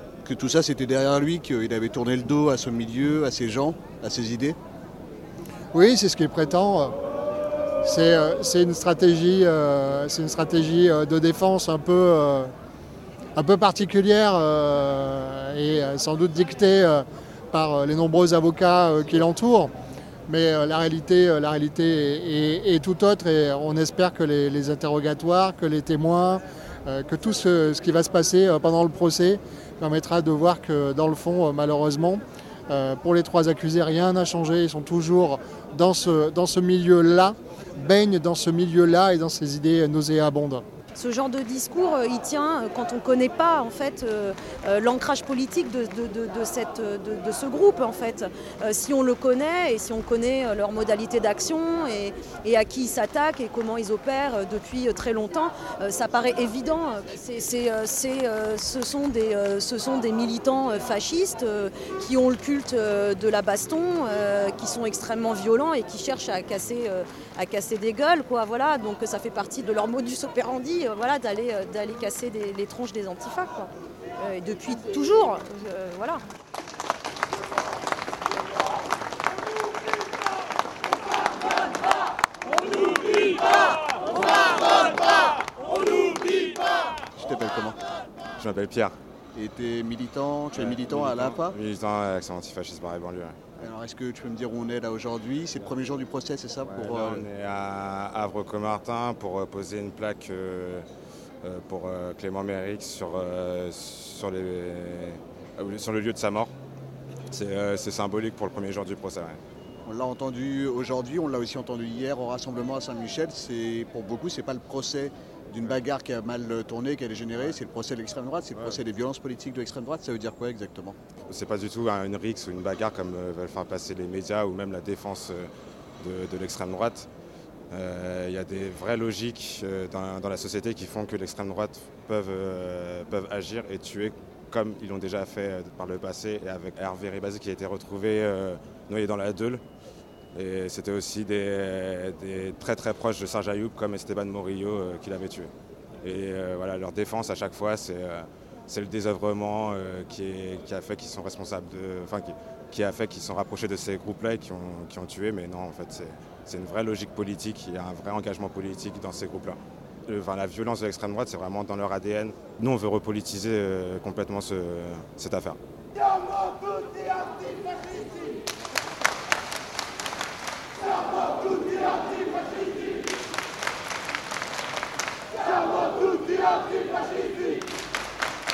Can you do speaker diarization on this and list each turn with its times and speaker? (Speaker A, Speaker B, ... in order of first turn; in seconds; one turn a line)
Speaker A: 0.2-4.6
Speaker B: 5.7-6.9
Speaker B: 7.8-12.5
Speaker B: 13.3-19.7
Speaker B: 20.3-40.6
Speaker C: 41.0-76.2
Speaker A: 87.2-87.8
Speaker D: 88.4-88.9
Speaker A: 89.3-91.6
Speaker D: 90.5-93.4
Speaker A: 93.6-97.3
Speaker D: 96.7-100.8
Speaker D: 101.4-106.5
Speaker D: 107.3-109.4
Speaker A: 109.8-121.0
Speaker D: 121.3-127.1
Speaker D: 127.7-139.6
Speaker D: 140.3-165.6